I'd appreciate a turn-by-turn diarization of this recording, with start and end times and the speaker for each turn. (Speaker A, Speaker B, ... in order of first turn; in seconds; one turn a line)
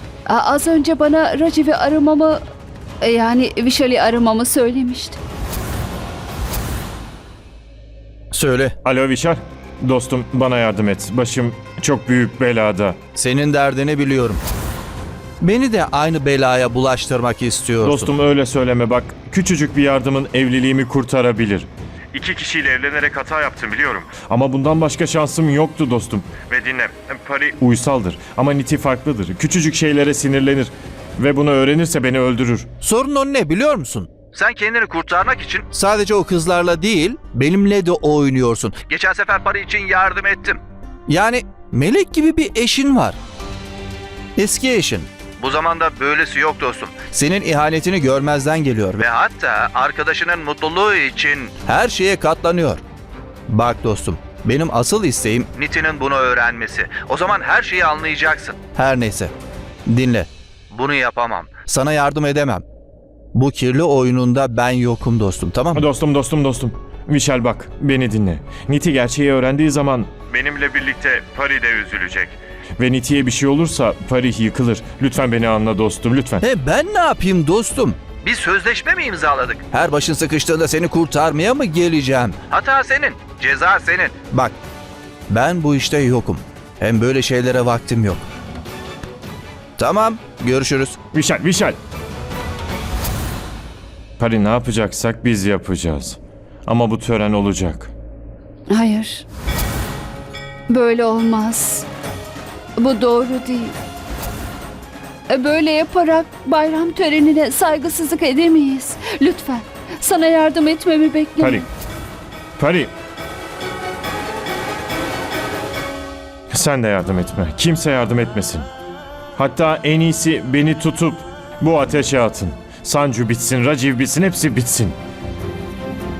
Speaker A: 0.3-2.4
Speaker A: 3.0-5.2
Speaker B: 8.3-8.7
Speaker C: 8.8-13.0
Speaker B: 13.2-14.4
Speaker B: 15.4-18.1
Speaker C: 17.8-32.7
Speaker B: 32.8-43.2
Speaker B: 44.4-52.8
Speaker B: 53.5-59.3
Speaker B: 59.9-62.6
Speaker B: 63.3-65.9
Speaker C: 65.7-76.4
Speaker B: 76.4-84.5
Speaker B: 85.3-88.2
Speaker B: 89.8-91.0
Speaker C: 91.1-91.8
Speaker C: 94.2-97.9
Speaker A: 98.7-99.2
Speaker A: 100.7-101.9
Speaker A: 102.8-103.8
Speaker A: 105.3-111.7
Speaker C: 111.4-111.6
Speaker C: 112.6-112.9
Speaker C: 116.5-118.7
Speaker C: 119.3-125.0